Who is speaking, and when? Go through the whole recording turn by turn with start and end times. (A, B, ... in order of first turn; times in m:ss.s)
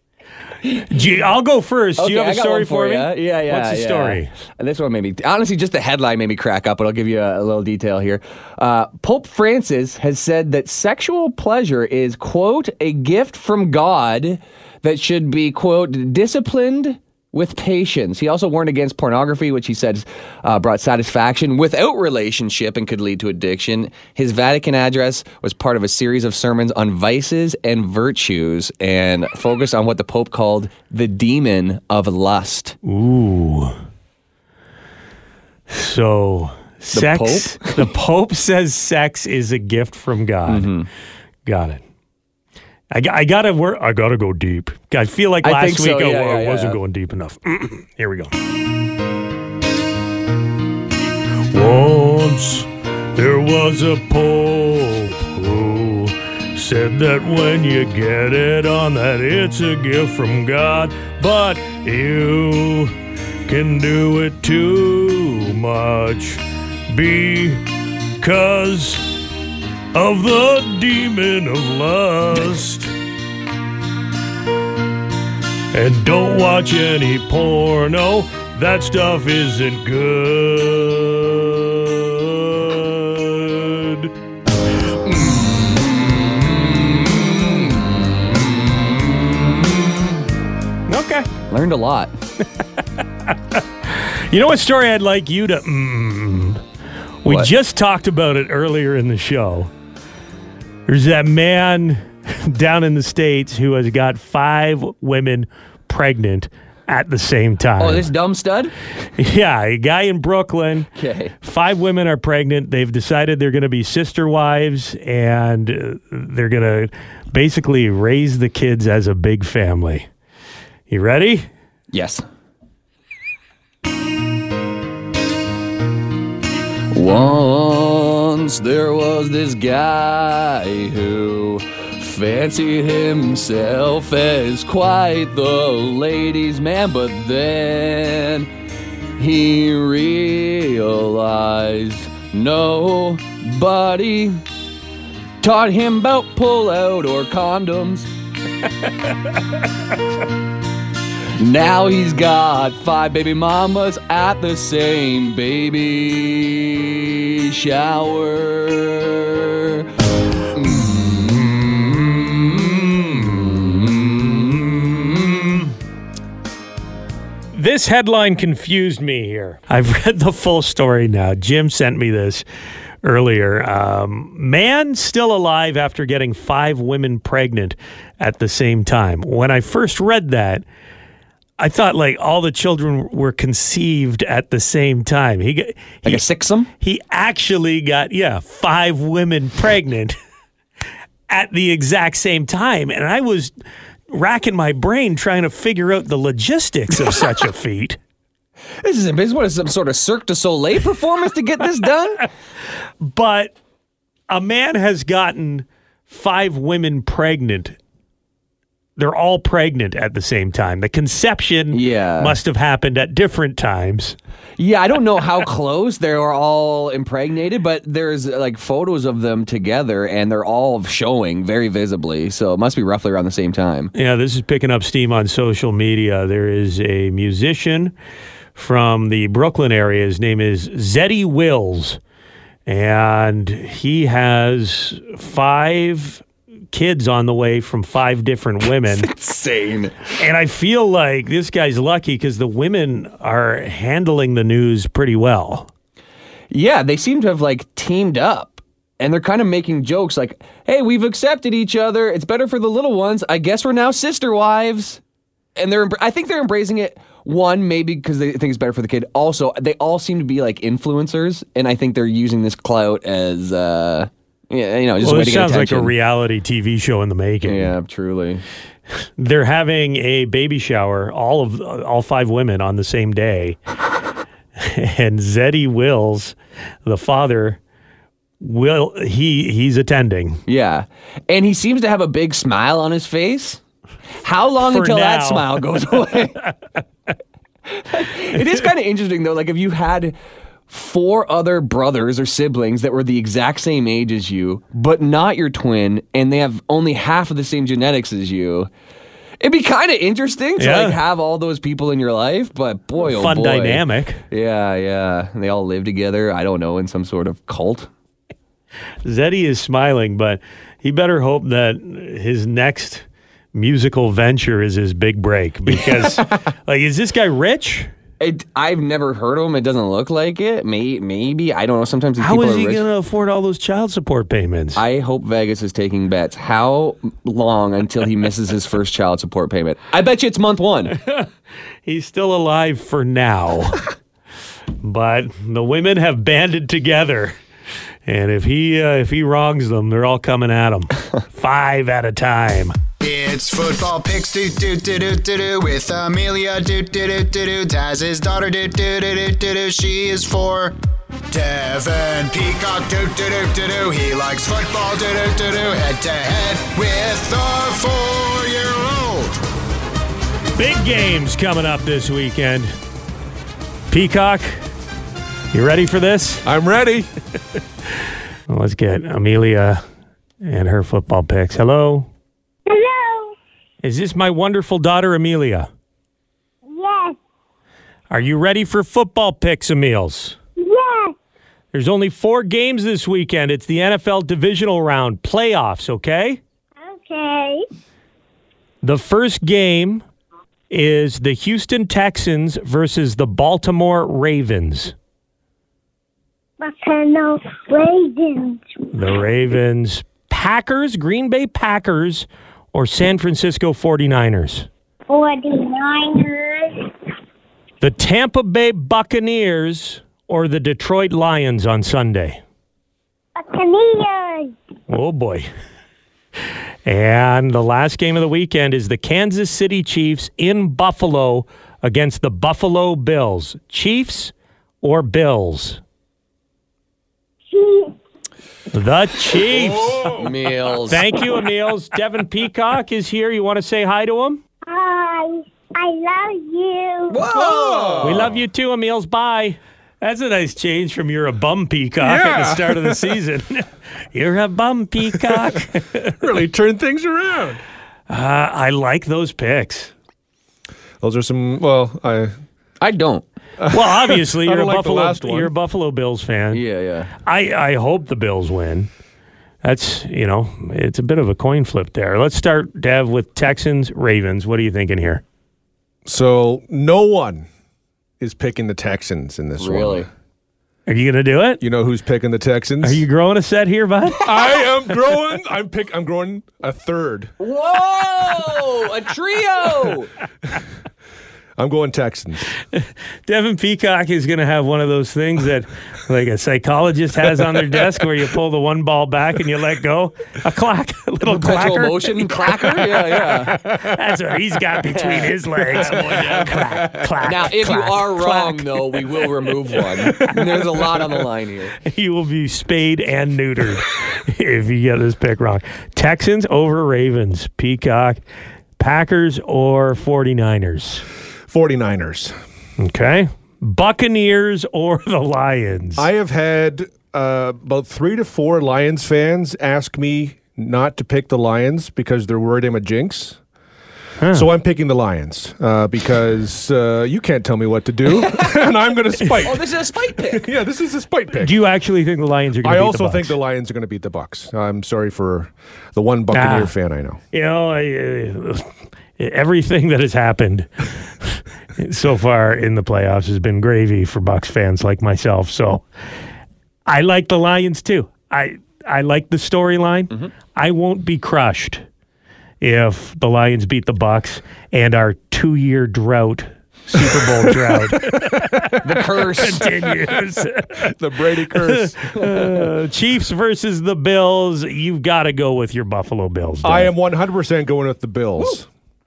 0:00.9-0:04.3 A
0:02.0-0:32.8 B
0:32.8-0:33.8 A
0:35.7-0:40.7 A
0:36.9-0:37.9 B
0:40.5-0:40.9 B
0:41.4-0:41.8 A
0:42.9-0:48.3 A
0:45.4-0:46.8 B
0:51.5-1:02.9 A
1:03.5-1:07.7 A
1:08.2-1:09.2 A
1:09.9-1:12.9 A
1:15.7-1:24.1 A
1:25.1-1:29.8 B
1:30.9-1:31.3 A
1:31.5-1:32.1 B
1:33.3-1:36.6 A
1:37.2-1:39.7 A
1:40.9-1:48.1 A
1:47.8-1:48.7 B
1:49.2-1:50.9 A
1:51.0-1:51.4 B
1:51.4-2:00.1 A
2:00.9-2:01.5 A
2:01.9-2:02.2 B
2:06.9-2:18.5 B
2:19.2-2:24.4 B
2:25.4-2:28.1 B
2:31.4-2:39.9 B
2:40.5-2:45.7 B
2:47.5-2:52.4 A
2:53.0-3:00.6 A
3:01.6-3:06.2 A
3:06.0-3:06.7 B
3:06.8-3:10.2 A
3:11.3-3:13.5 A
3:14.1-3:18.0 A
3:18.8-3:22.3 B
3:23.0-3:23.5 A
3:24.3-3:27.8 A
3:29.0-3:34.2 A
3:31.7-3:32.4 B
3:34.6-3:43.9 B
3:43.9-3:47.9 A
3:48.6-3:52.0 A
3:52.7-3:59.1 A
3:58.9-4:00.0 B
4:00.2-4:05.7 A
4:06.5-4:15.0 B
4:15.6-4:25.9 B
4:25.0-4:27.7 A
4:27.4-4:28.4 B
4:29.2-4:33.6 A
4:34.6-4:37.6 A
4:38.4-4:40.4 A
4:40.5-4:43.6 B
4:44.2-4:46.5 B
4:44.6-4:45.5 A
4:47.7-4:50.2 B
4:50.7-4:58.7 B
4:59.4-5:07.9 B
5:00.6-5:01.0 A
5:03.0-5:04.2 A
5:09.0-5:17.9 A
5:15.7-5:16.3 B
5:18.2-5:22.8 B
5:22.2-5:24.8 A
5:24.8-5:30.9 B
5:31.0-5:31.3 A
5:31.9-5:33.8 A
5:34.8-5:37.4 A
5:38.1-5:42.8 A
5:43.0-5:50.8 C
5:51.3-5:59.4 C
6:00.6-6:02.7 A
6:03.9-6:04.6 A
6:05.5-6:06.4 A
6:06.4-6:07.1 D
6:08.5-6:09.8 A
6:10.4-6:12.1 A
6:12.7-6:13.4 E
6:13.8-6:15.7 A
6:16.7-6:17.2 E
6:18.1-6:20.4 A
6:20.6-6:21.2 E
6:21.7-6:26.4 A
6:26.8-6:27.6 E
6:28.8-6:30.0 A
6:30.7-6:34.9 A
6:36.6-6:38.6 E
6:38.9-6:44.7 A
6:45.1-6:46.9 E
6:47.8-6:52.4 A
6:53.4-6:54.6 E
6:54.9-6:55.5 A
6:56.8-7:05.8 A
7:07.5-7:08.0 E
7:08.7-7:10.0 A
7:09.5-7:10.4 D
7:10.2-7:11.1 B
7:10.9-7:14.4 A
7:14.7-7:17.2 E
7:17.1-7:18.3 B
7:17.2-7:18.3 D
7:18.0-7:26.2 A
7:22.0-7:23.2 D
7:25.1-7:25.6 D
7:26.2-7:27.6 D
7:28.1-7:29.9 A
7:31.0-7:32.3 D
7:32.8-7:33.2 B
7:33.6-7:35.5 D
7:33.7-7:36.6 A
7:36.5-7:37.1 B
7:37.2-7:38.9 A
7:39.6-7:45.2 A
7:46.0-7:47.5 D
7:48.2-7:50.1 D
7:49.6-7:50.1 B
7:50.9-7:51.6 A
7:51.6-7:53.1 D
7:52.8-7:54.3 A
7:54.2-7:57.3 D
7:57.4-8:00.1 B
8:01.6-8:02.5 D
8:02.7-8:20.3 A
8:11.3-8:13.6 B
8:14.9-8:16.6 B
8:16.4-8:17.1 D
8:17.2-8:21.8 B
8:21.9-8:28.2 A
8:28.8-8:31.0 A
8:31.5-8:32.4 D
8:32.8-8:36.1 A
8:36.0-8:43.4 D
8:44.2-8:44.5 A
8:44.3-8:51.6 D
8:48.2-8:48.6 B
8:49.4-8:50.5 B
8:51.4-8:53.4 A
8:52.6-8:57.2 D
8:56.3-8:56.7 A
8:57.3-8:58.7 A
8:59.2-9:00.7 A
9:01.2-9:05.8 A
9:06.9-9:11.8 A
9:12.6-9:18.8 A
9:17.1-9:17.9 D
9:18.8-9:19.7 B
9:19.4-9:20.9 A
9:20.8-9:22.0 D
9:21.6-9:26.9 A
9:26.6-9:28.7 D